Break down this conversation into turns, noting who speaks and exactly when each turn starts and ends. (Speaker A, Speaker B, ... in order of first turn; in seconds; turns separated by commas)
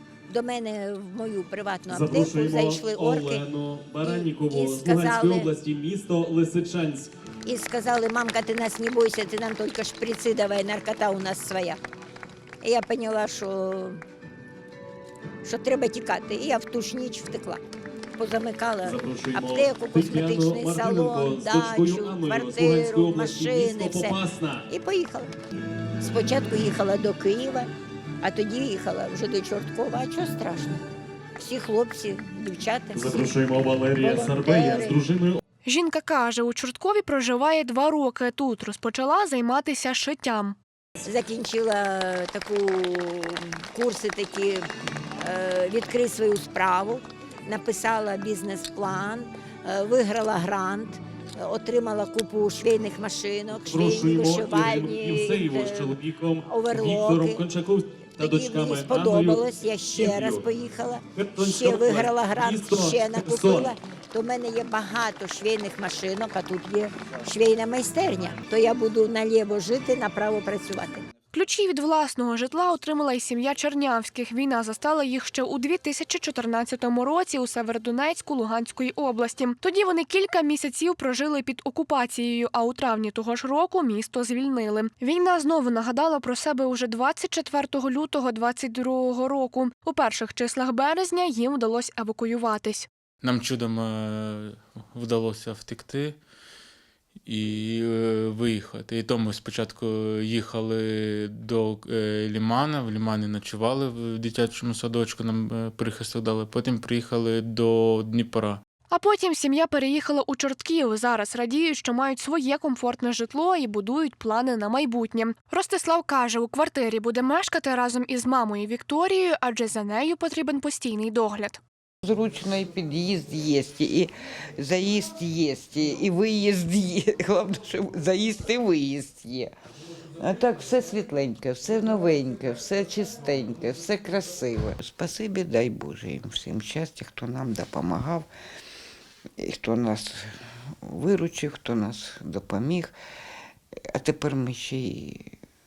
Speaker A: 0.3-3.5, Speaker B: 1.9-7.1, Speaker A: 4.0-5.5, Speaker A: 7.5-11.8, Speaker A: 12.6-14.0, Speaker A: 15.4-17.6, Speaker A: 18.2-25.3, Speaker B: 18.8-24.7, Speaker A: 26.0-27.7, Speaker A: 28.2-30.8, Speaker A: 31.4-33.3, Speaker B: 32.9-35.4, Speaker A: 34.0-35.0, Speaker C: 35.6-40.6, Speaker A: 41.0-44.7, Speaker A: 45.2-57.5, Speaker B: 53.5-60.5, Speaker A: 58.2-71.0, Speaker B: 61.1-63.7, Speaker C: 71.3-92.9, Speaker D: 93.2-96.2, Speaker D: 97.2-108.6, Speaker C: 108.9-121.6, Speaker E: 122.0-129.5, Speaker E: 130.2-138.3, Speaker E: 139.4-140.3, Speaker E: 140.8-142.9, Speaker E: 143.9-145.3